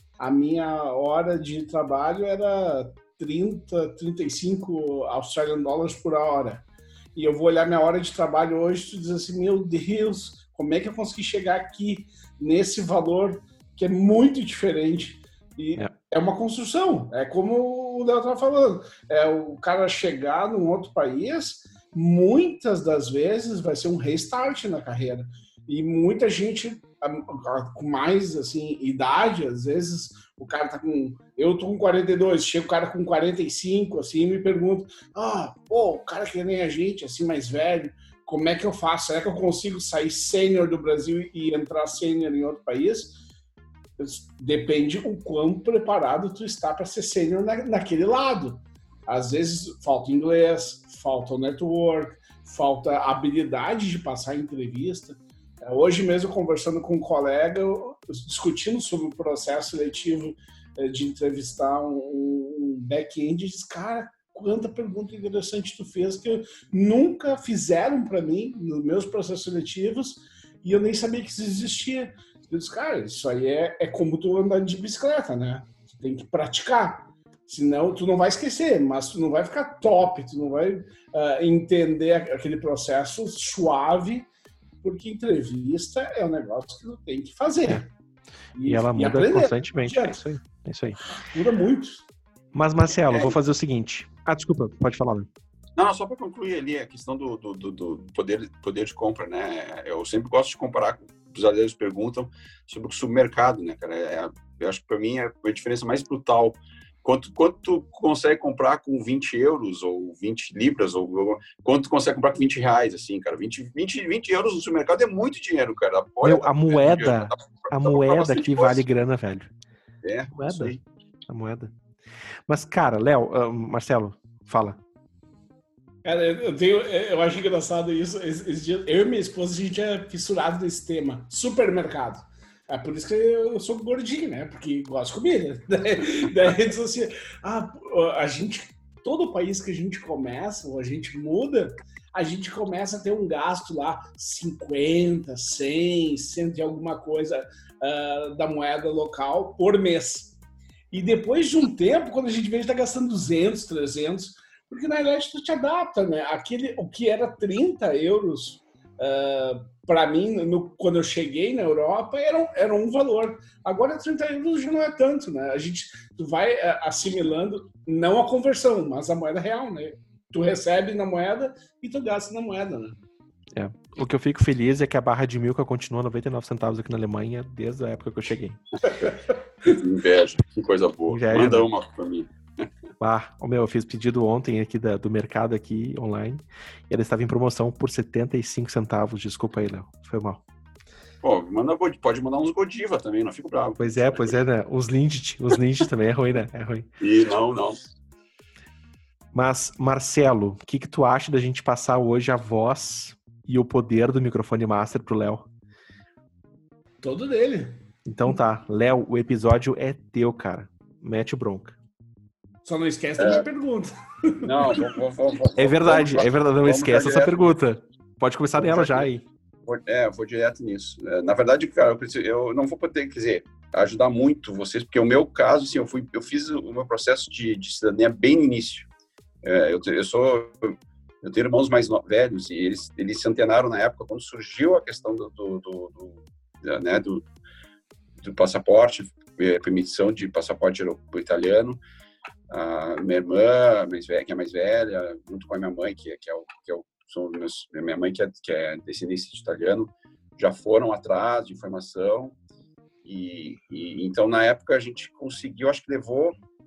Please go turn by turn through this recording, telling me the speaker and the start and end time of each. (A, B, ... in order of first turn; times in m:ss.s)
0:00.2-0:43.2 A
0:44.0-1:24.3 A
1:24.8-1:27.9 A
1:28.5-1:30.2 A
1:28.6-1:31.0 B
1:31.2-1:32.0 A
1:32.5-1:35.3 B
1:33.1-1:33.4 C
1:35.8-1:58.8 C
1:56.2-1:59.5 B
2:00.0-2:00.8 C
2:00.3-2:00.8 B
2:01.3-2:01.7 B
2:02.5-2:04.8 B
2:06.0-2:30.4 A
2:30.9-2:53.0 A
2:53.5-2:58.6 B
2:59.6-3:02.6 C
3:01.1-3:01.7 B
3:03.0-3:10.4 B
3:11.2-3:14.4 C
3:13.8-3:16.8 B
3:17.0-3:17.8 C
3:19.3-3:25.4 B
3:27.0-3:27.8 A
3:28.0-3:31.8 B
3:32.6-3:34.9 A
3:33.2-3:33.5 C
3:34.4-3:37.5 C
3:35.6-3:39.2 B
3:38.6-3:39.1 C
3:39.6-3:48.9 C
3:49.4-3:57.2 C
3:58.2-4:01.8 C
4:02.5-4:12.3 C
4:13.0-4:16.4 C